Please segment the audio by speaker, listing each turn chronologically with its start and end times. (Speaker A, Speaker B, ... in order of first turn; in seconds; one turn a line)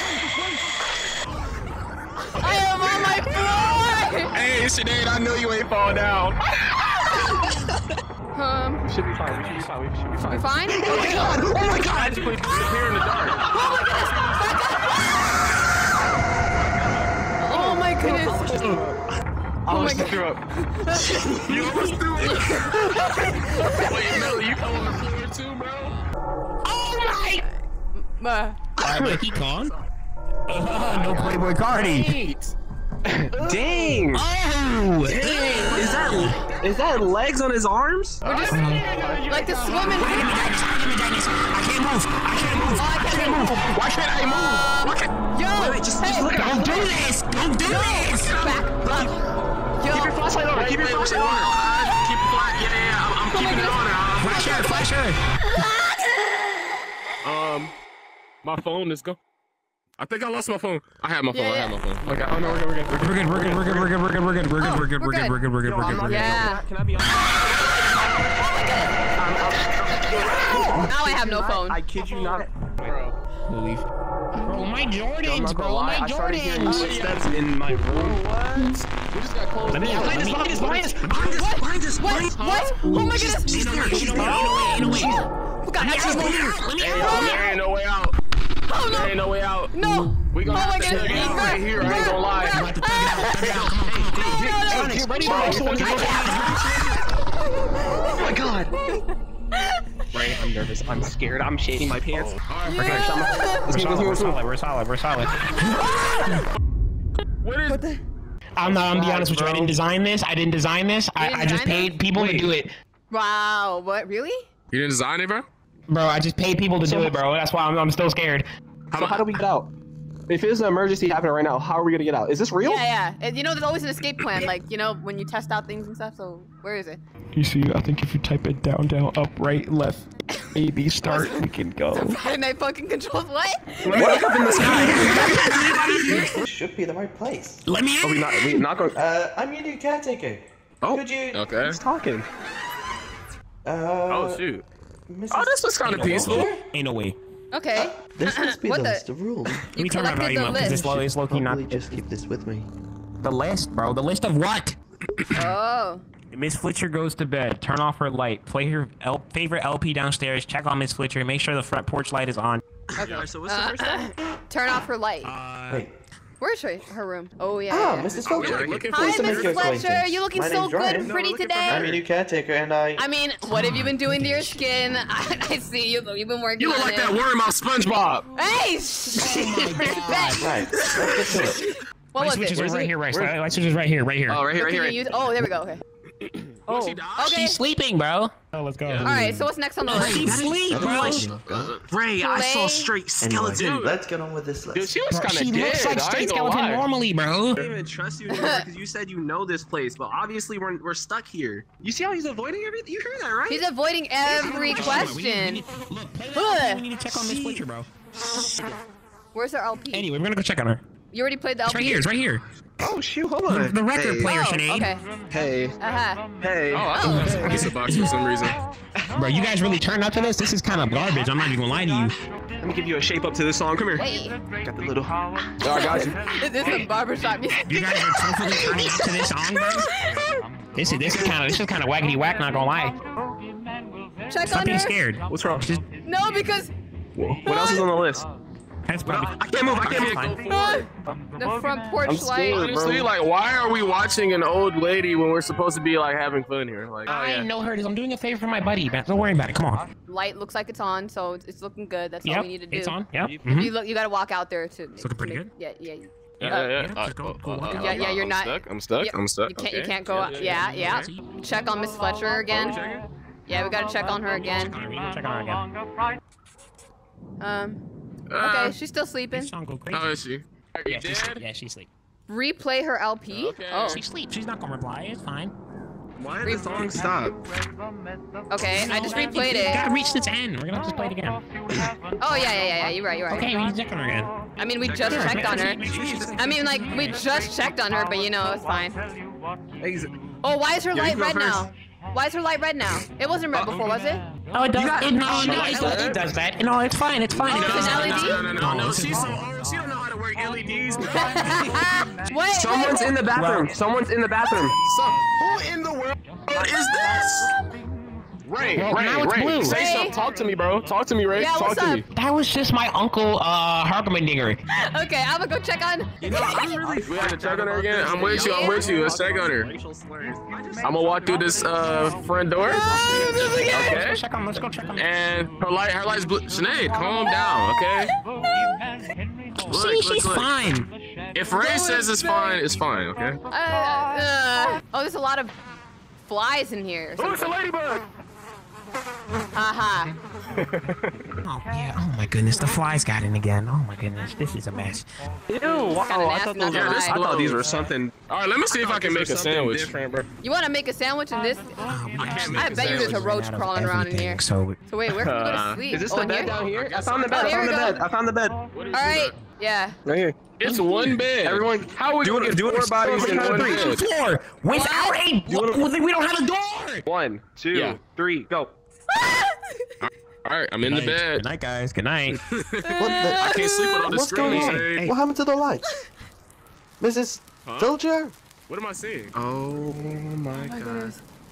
Speaker A: 2.4-4.3
Speaker B: 3.2-3.6
Speaker B: 4.3-6.6
Speaker A: 8.3-8.8
Speaker C: 8.9-12.7
Speaker D: 9.3-9.7
Speaker A: 10.3-11.4
Speaker B: 11.2-14.4
Speaker A: 13.5-15.4
Speaker A: 17.4-18.7
Speaker C: 17.5-19.0
Speaker B: 18.5-18.8
Speaker C: 19.6-20.4
Speaker A: 19.7-21.4
Speaker B: 21.2-26.0
Speaker C: 21.4-21.9
Speaker D: 21.5-22.0
Speaker A: 22.2-24.4
Speaker D: 26.6-27.4
Speaker A: 27.4-28.6
Speaker D: 28.8-29.7
Speaker C: 28.8-29.2
Speaker B: 29.4-29.9
Speaker D: 30.5-32.1
Speaker B: 30.8-32.5
Speaker C: 33.0-34.2
Speaker B: 33.4-34.0
Speaker D: 34.1-36.4
Speaker C: 35.0-39.2
Speaker A: 35.2-36.1
Speaker B: 38.2-40.3
Speaker A: 38.2-38.7
Speaker D: 38.5-38.8
Speaker A: 39.2-40.3
Speaker D: 39.9-44.5
Speaker B: 42.5-42.8
Speaker A: 42.8-43.7
Speaker B: 43.7-45.1
Speaker A: 44.2-46.9
Speaker C: 45.5-46.9
Speaker D: 46.3-48.4
Speaker A: 47.6-49.2
Speaker B: 48.2-49.1
Speaker A: 49.8-50.3
Speaker C: 49.9-51.5
Speaker B: 50.5-54.6
Speaker A: 53.3-54.9
Speaker D: 54.1-55.2
Speaker A: 55.4-56.4
Speaker B: 57.2-57.7
Speaker B: 58.4-59.2
Speaker B: 60.0-62.6
Speaker A: 61.3-61.8
Speaker C: 62.1-63.9
Speaker D: 62.9-66.5
Speaker A: 64.6-66.6
Speaker C: 65.6-67.7
Speaker A: 68.3-68.9
Speaker C: 69.2-72.5
Speaker B: 70.1-70.8
Speaker A: 70.8-71.8
Speaker B: 72.0-73.1
Speaker D: 73.5-76.9
Speaker C: 75.2-78.7
Speaker B: 76.6-78.3
Speaker B: 78.9-80.9
Speaker D: 79.7-81.4
Speaker C: 79.8-85.2
Speaker A: 81.2-87.5
Speaker B: 82.3-82.7
Speaker D: 83.4-85.2
Speaker D: 85.8-87.5
Speaker B: 86.8-88.2
Speaker A: 88.7-89.1
Speaker B: 88.8-92.7
Speaker A: 89.7-93.7
Speaker D: 90.8-96.7
Speaker C: 93.4-97.0
Speaker A: 94.2-96.5
Speaker A: 97.3-98.3
Speaker C: 98.0-98.7
Speaker A: 98.8-99.9
Speaker C: 100.1-104.4
Speaker B: 102.1-103.0
Speaker A: 102.6-103.7
Speaker D: 102.8-103.1
Speaker D: 103.6-105.9
Speaker B: 107.4-107.8
Speaker A: 107.7-108.0
Speaker D: 108.5-112.7
Speaker C: 108.6-109.7
Speaker A: 111.2-112.0
Speaker C: 112.1-112.5
Speaker A: 113.1-114.4
Speaker B: 114.7-115.5
Speaker D: 115.9-118.5
Speaker C: 116.8-117.2
Speaker B: 118.9-119.3
Speaker C: 118.9-119.7
Speaker C: 120.3-122.8
Speaker A: 122.6-127.0
Speaker D: 127.3-132.2
Speaker A: 131.1-136.2
Speaker C: 133.8-136.4
Speaker B: 133.9-134.8
Speaker D: 134.5-136.3
Speaker E: 135.3-137.6
Speaker D: 137.6-138.7
Speaker C: 138.0-139.0
Speaker E: 138.9-141.5
Speaker B: 141.3-141.8
Speaker C: 141.6-142.3
Speaker E: 143.6-144.4
Speaker B: 144.1-144.6
Speaker E: 145.1-146.6
Speaker B: 145.3-146.5
Speaker D: 145.8-147.2
Speaker A: 147.5-149.0
Speaker E: 147.8-149.7
Speaker A: 149.6-150.8
Speaker D: 149.7-152.0
Speaker E: 150.4-152.7
Speaker D: 153.2-154.8
Speaker A: 155.3-156.0
Speaker D: 156.3-162.6
Speaker C: 162.9-164.1
Speaker A: 163.0-165.3
Speaker B: 163.0-163.3
Speaker D: 165.2-165.9
Speaker A: 166.4-168.2
Speaker E: 167.7-171.1
Speaker B: 168.3-169.8
Speaker C: 168.3-168.9
Speaker A: 168.9-171.9
Speaker B: 171.0-172.0
Speaker C: 171.0-172.0
Speaker E: 171.7-173.1
Speaker A: 173.0-177.2
Speaker D: 173.5-174.6
Speaker B: 176.6-178.3
Speaker A: 178.3-180.6
Speaker D: 179.1-180.6
Speaker E: 180.4-181.6
Speaker B: 180.9-181.5
Speaker A: 181.4-182.9
Speaker D: 182.2-184.4
Speaker C: 182.5-183.3
Speaker C: 184.3-185.2
Speaker A: 184.5-185.8
Speaker B: 186.7-187.4
Speaker A: 186.7-187.6
Speaker D: 187.2-191.3
Speaker A: 189.0-190.4
Speaker C: 189.9-193.8
Speaker B: 190.7-191.9
Speaker A: 192.2-192.9
Speaker E: 193.2-194.9
Speaker B: 193.5-193.9
Speaker B: 194.7-196.8
Speaker D: 195.1-197.6
Speaker C: 197.6-203.6
Speaker A: 198.3-198.7
Speaker A: 203.5-205.6
Speaker D: 204.3-208.3
Speaker C: 204.8-205.1
Speaker A: 206.3-206.8
Speaker C: 207.1-207.6
Speaker C: 208.3-208.7
Speaker A: 209.3-210.1
Speaker D: 209.9-210.8
Speaker A: 211.1-212.0
Speaker D: 211.7-212.4
Speaker C: 212.8-214.3
Speaker D: 213.5-214.9
Speaker A: 214.2-215.0
Speaker C: 215.3-215.8
Speaker A: 215.8-216.3
Speaker C: 216.4-217.5
Speaker B: 216.7-218.6
Speaker A: 216.9-217.7
Speaker D: 217.0-218.2
Speaker D: 219.1-222.2
Speaker C: 222.6-224.1
Speaker A: 223.9-224.4
Speaker C: 224.6-225.1
Speaker B: 225.6-226.8
Speaker A: 225.6-230.4
Speaker D: 227.6-229.9
Speaker D: 230.7-233.0
Speaker C: 231.0-231.3
Speaker A: 234.3-235.0
Speaker D: 234.4-235.8
Speaker C: 235.3-235.7
Speaker A: 236.0-236.7
Speaker C: 237.2-238.2
Speaker A: 237.4-237.9
Speaker D: 238.9-240.4
Speaker C: 239.0-240.3
Speaker B: 239.8-240.9
Speaker A: 240.5-242.8
Speaker C: 242.0-243.1
Speaker B: 242.5-247.5
Speaker D: 247.1-249.9
Speaker A: 250.1-256.8
Speaker D: 252.2-253.7
Speaker C: 253.2-253.7
Speaker D: 255.0-255.5
Speaker B: 256.4-261.0
Speaker D: 256.4-258.2
Speaker A: 257.7-262.8
Speaker D: 260.3-261.3
Speaker B: 262.5-263.1
Speaker A: 263.5-264.7
Speaker D: 264.3-265.7
Speaker A: 267.4-267.8
Speaker B: 268.3-268.8
Speaker A: 268.4-269.5
Speaker D: 269.3-270.2
Speaker B: 269.9-271.4
Speaker D: 270.9-271.9
Speaker A: 272.3-274.0
Speaker B: 273.3-274.0
Speaker D: 273.9-275.5
Speaker C: 276.2-277.4
Speaker A: 278.5-279.8
Speaker D: 278.7-281.9
Speaker A: 282.2-283.5
Speaker D: 283.3-284.3
Speaker A: 284.6-285.8
Speaker C: 284.8-286.3
Speaker D: 285.0-287.5
Speaker A: 286.4-289.0
Speaker C: 287.9-288.8
Speaker C: 289.8-290.1
Speaker A: 290.4-294.2
Speaker C: 290.9-291.7
Speaker C: 293.5-294.0
Speaker D: 294.5-299.4
Speaker C: 294.8-296.2
Speaker B: 295.4-296.2
Speaker B: 297.4-301.8
Speaker A: 297.5-298.4
Speaker A: 301.1-303.2
Speaker C: 302.5-304.8
Speaker D: 303.3-303.7
Speaker B: 304.8-307.5
Speaker B: 308.4-312.0
Speaker D: 308.8-309.8
Speaker C: 309.2-309.6
Speaker A: 309.6-310.1
Speaker A: 311.3-312.0
Speaker D: 312.1-314.6
Speaker A: 314.7-316.5
Speaker C: 316.2-322.2
Speaker B: 316.2-319.7
Speaker A: 318.2-318.9
Speaker B: 320.8-324.2
Speaker A: 322.6-323.9
Speaker D: 322.9-325.3
Speaker B: 324.9-328.1
Speaker D: 329.6-330.9
Speaker B: 329.7-330.5
Speaker B: 331.3-333.4
Speaker A: 331.5-332.6
Speaker A: 333.5-335.6
Speaker A: 336.2-337.5
Speaker B: 337.2-338.0
Speaker A: 339.5-340.1
Speaker C: 340.5-341.1
Speaker D: 341.4-345.1
Speaker C: 345.5-349.9
Speaker B: 345.6-346.0
Speaker A: 346.0-347.3
Speaker B: 346.7-350.2
Speaker A: 350.4-356.5
Speaker D: 351.8-354.8
Speaker B: 352.2-353.2
Speaker B: 355.1-357.9
Speaker C: 355.9-358.6
Speaker A: 357.3-358.0
Speaker B: 358.7-359.4
Speaker A: 358.9-360.0
Speaker C: 360.0-360.4
Speaker B: 360.6-364.0
Speaker D: 360.6-361.2
Speaker C: 361.4-363.9
Speaker D: 363.4-367.1
Speaker A: 364.7-365.2
Speaker C: 365.5-365.9
Speaker C: 367.0-368.7
Speaker B: 367.7-368.0
Speaker A: 369.1-369.9
Speaker B: 370.0-371.4
Speaker D: 370.8-372.4
Speaker B: 372.3-375.1
Speaker A: 372.8-374.1
Speaker E: 373.0-373.5
Speaker E: 374.1-375.9
Speaker C: 374.4-375.1
Speaker E: 377.0-378.3
Speaker B: 377.6-377.9
Speaker B: 378.7-379.9
Speaker C: 379.4-381.2
Speaker A: 380.6-381.2